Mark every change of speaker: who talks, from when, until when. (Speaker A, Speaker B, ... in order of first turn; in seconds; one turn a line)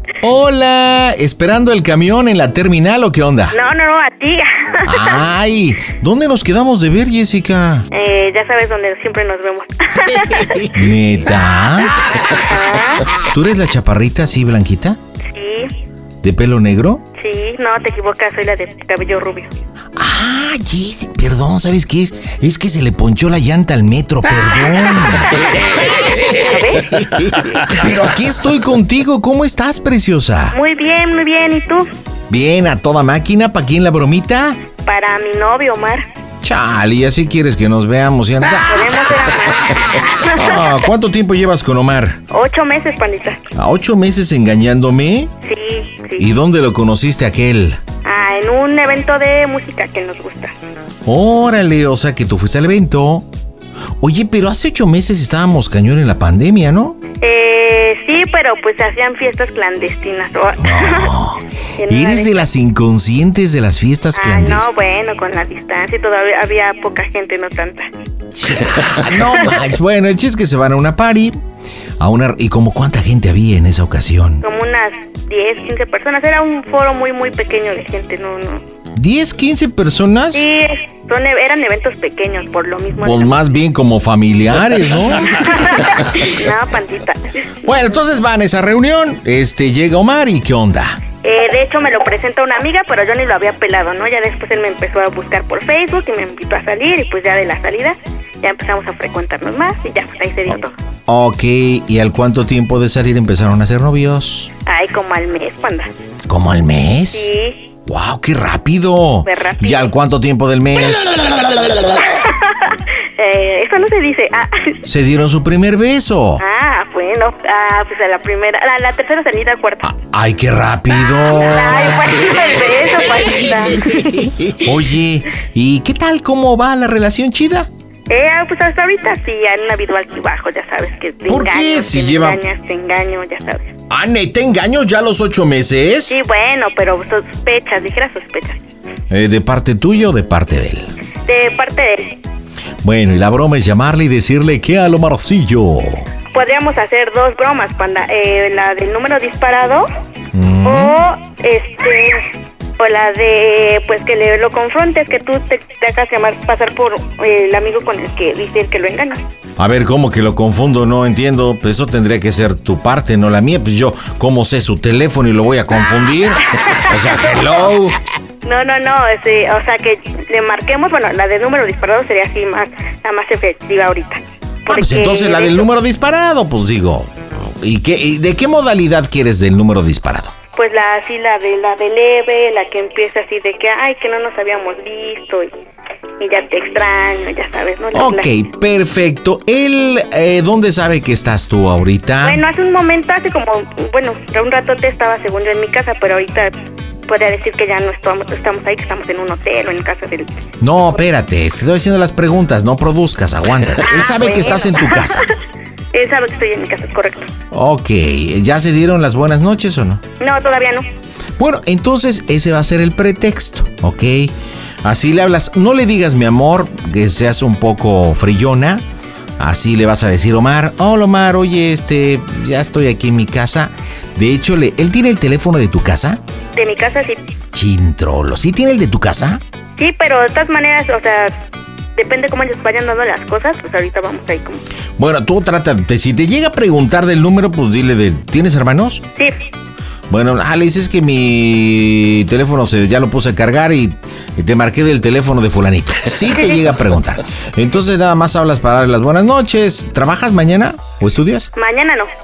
Speaker A: 0.2-3.6
Speaker B: 3.5-5.2
Speaker A: 4.9-7.9
Speaker B: 7.9-10.7
Speaker A: 10.7-12.0
Speaker B: 12.4-13.1
Speaker A: 13.3-15.0
Speaker B: 15.3-15.7
Speaker A: 16.2-17.0
Speaker B: 17.1-19.5
Speaker A: 20.0-25.4
Speaker B: 26.4-26.9
Speaker A: 26.7-30.6
Speaker B: 30.5-31.9
Speaker A: 32.3-34.6
Speaker B: 34.8-36.0
Speaker A: 36.4-39.0
Speaker B: 38.7-40.8
Speaker A: 40.4-42.2
Speaker B: 42.3-43.5
Speaker A: 43.5-45.3
Speaker B: 45.4-46.3
Speaker A: 46.2-47.8
Speaker B: 48.0-50.5
Speaker A: 51.1-53.3
Speaker A: 54.0-57.0
Speaker B: 57.2-61.1
Speaker A: 60.6-64.7
Speaker B: 61.8-62.5
Speaker B: 64.2-67.9
Speaker A: 68.3-71.4
Speaker B: 69.3-69.6
Speaker A: 72.0-74.4
Speaker B: 74.4-78.6
Speaker A: 79.0-80.4
Speaker B: 80.3-83.3
Speaker A: 83.0-85.5
Speaker B: 85.4-87.5
Speaker A: 87.7-91.0
Speaker B: 91.2-100.7
Speaker A: 101.1-104.5
Speaker B: 104.7-105.9
Speaker A: 106.3-107.3
Speaker B: 107.1-107.7
Speaker A: 107.9-111.3
Speaker B: 109.2-109.9
Speaker B: 112.2-114.8
Speaker A: 114.8-116.4
Speaker B: 116.4-119.9
Speaker A: 119.8-122.2
Speaker B: 121.3-123.9
Speaker A: 124.2-127.7
Speaker B: 128.1-133.8
Speaker A: 131.3-132.4
Speaker A: 133.9-136.1
Speaker B: 136.1-138.6
Speaker A: 139.1-140.9
Speaker B: 141.3-142.2
Speaker A: 142.8-146.1
Speaker B: 146.3-149.9
Speaker A: 150.3-151.0
Speaker B: 150.6-152.2
Speaker B: 152.8-159.2
Speaker A: 159.6-168.0
Speaker B: 166.6-166.9
Speaker B: 168.4-175.7
Speaker A: 174.7-180.3
Speaker B: 180.6-185.5
Speaker B: 186.2-188.3
Speaker A: 187.9-192.4
Speaker B: 192.2-196.5
Speaker B: 197.1-201.0
Speaker A: 200.6-205.3
Speaker B: 203.8-205.2
Speaker B: 205.9-207.3
Speaker A: 207.5-210.0
Speaker B: 210.2-210.8
Speaker A: 211.4-218.8
Speaker A: 219.4-226.2
Speaker B: 226.6-227.2
Speaker A: 227.5-229.4
Speaker B: 229.8-231.3
Speaker B: 232.0-234.6
Speaker A: 235.0-239.0
Speaker A: 240.1-251.5
Speaker B: 246.3-246.6
Speaker B: 251.6-252.1